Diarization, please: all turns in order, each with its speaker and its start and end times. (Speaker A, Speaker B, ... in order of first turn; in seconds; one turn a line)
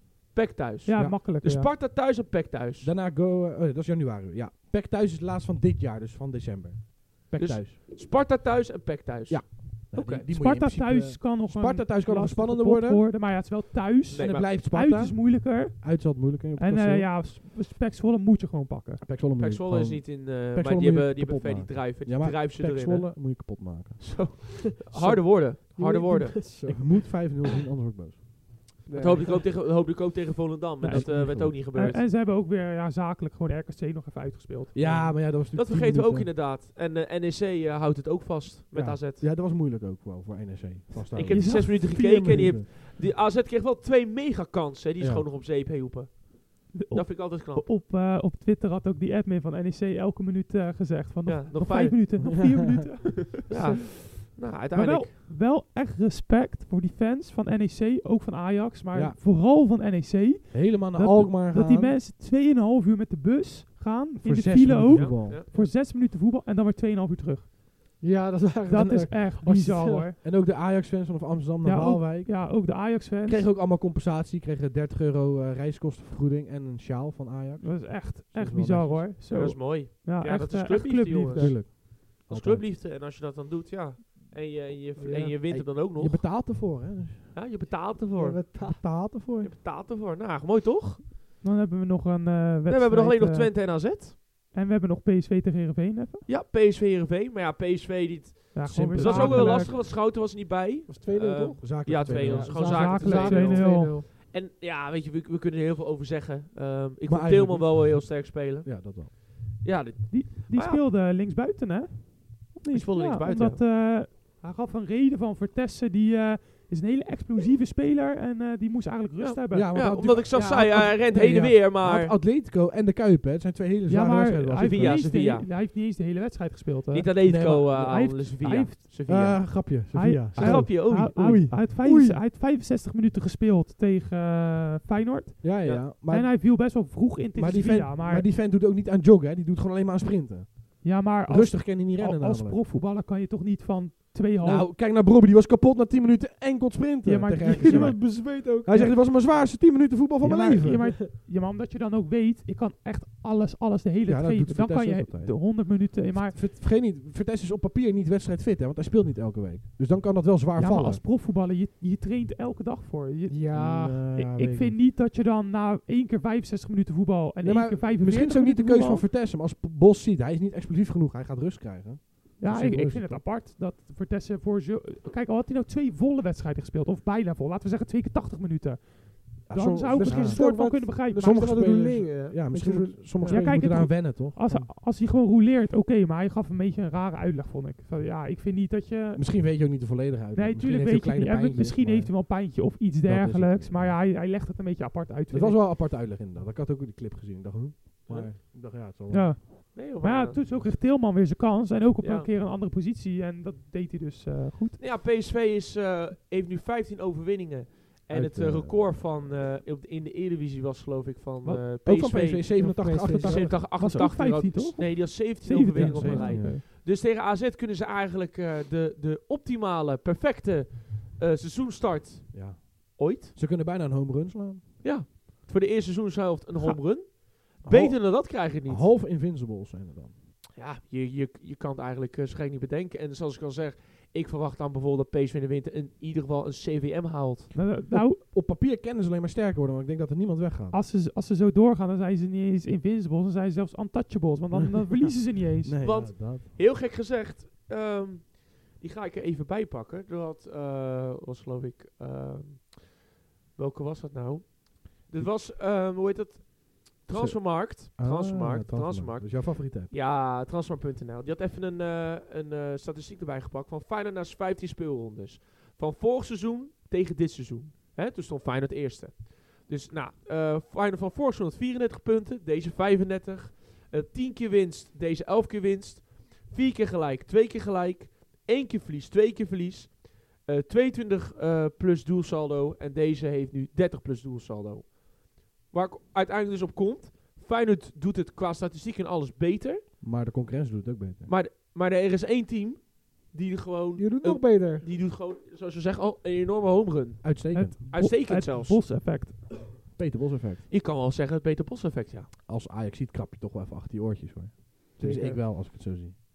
Speaker A: 0.3-2.9
Speaker B: 0.8-1.7
Speaker C: 2.8-7.8
Speaker A: 7.3-10.3
Speaker C: 9.3-13.1
Speaker B: 10.3-19.0
Speaker C: 14.1-17.1
Speaker A: 14.1-14.5
Speaker C: 19.0-24.4
Speaker A: 19.4-26.4
Speaker C: 24.9-25.2
Speaker D: 25.7-27.4
Speaker C: 26.6-28.2
Speaker D: 28.9-29.5
Speaker A: 28.9-32.0
Speaker B: 30.8-35.1
Speaker C: 30.9-31.6
Speaker C: 34.7-36.3
Speaker A: 35.5-39.2
Speaker C: 38.7-42.6
Speaker A: 41.1-47.7
Speaker B: 41.3-42.5
Speaker C: 45.0-45.3
Speaker B: 46.7-67.5
Speaker A: 51.2-52.2
Speaker C: 52.3-52.6
Speaker A: 53.5-55.1
Speaker C: 58.9-59.2
Speaker C: 60.5-62.0
Speaker C: 64.2-65.5
Speaker A: 64.9-65.7
Speaker D: 68.0-70.0
Speaker B: 68.7-70.2
Speaker C: 69.0-79.1
Speaker B: 71.6-73.4
Speaker B: 77.6-81.6
Speaker A: 79.3-86.3
Speaker C: 81.3-82.7
Speaker D: 85.0-85.7
Speaker C: 85.7-87.3
Speaker A: 87.3-88.5
Speaker D: 88.1-88.8
Speaker C: 88.6-89.5
Speaker A: 89.4-91.1
Speaker B: 91.4-93.5
Speaker A: 92.7-94.2
Speaker B: 94.5-96.3
Speaker A: 96.2-110.8
Speaker B: 98.5-99.7
Speaker C: 98.7-99.5
Speaker D: 99.0-99.8
Speaker D: 100.9-104.1
Speaker C: 101.6-102.7
Speaker B: 102.6-104.0
Speaker C: 107.0-109.1
Speaker B: 110.1-120.9
Speaker A: 112.7-113.6
Speaker A: 119.2-122.2
Speaker C: 119.5-125.1
Speaker B: 123.9-128.8
Speaker A: 124.6-125.5
Speaker A: 126.9-129.7
Speaker C: 127.2-127.7
Speaker C: 129.1-132.2
Speaker B: 129.9-138.3
Speaker A: 130.3-131.4
Speaker C: 135.4-136.8
Speaker C: 137.3-142.6
Speaker B: 140.8-144.7
Speaker C: 144.4-150.8
Speaker B: 147.0-148.1
Speaker D: 147.4-148.9
Speaker B: 150.2-156.4
Speaker D: 150.6-150.9
Speaker C: 154.0-161.0
Speaker B: 160.6-163.5
Speaker D: 163.3-164.0
Speaker C: 163.5-164.8
Speaker B: 164.1-169.1
Speaker C: 167.4-173.2
Speaker B: 172.4-181.7
Speaker C: 179.5-184.7
Speaker D: 179.9-183.5
Speaker B: 183.2-189.5
Speaker C: 189.1-192.5
Speaker B: 190.3-195.6
Speaker C: 193.0-194.0
Speaker C: 195.3-199.4
Speaker A: 198.1-198.3
Speaker B: 199.1-204.8
Speaker A: 199.7-200.4
Speaker A: 202.0-202.3
Speaker A: 204.8-223.3
Speaker C: 208.1-209.0
Speaker C: 211.8-213.8
Speaker D: 212.6-213.5
Speaker B: 213.7-216.6
Speaker C: 215.7-216.6
Speaker C: 222.3-224.6
Speaker A: 224.8-228.9
Speaker C: 227.6-230.1
Speaker A: 230.6-237.5
Speaker B: 237.5-238.2
Speaker C: 237.9-240.8
Speaker B: 240.7-245.8
Speaker C: 244.5-246.5
Speaker A: 245.8-289.9
Speaker C: 257.1-259.9
Speaker C: 290.0-291.3
Speaker A: 291.3-298.9
Speaker D: 294.0-294.8
Speaker C: 297.2-297.8
Speaker B: 297.5-299.7
Speaker C: 299.9-300.7
Speaker A: 300.7-302.3
Speaker C: 302.5-306.1
Speaker D: 305.0-305.4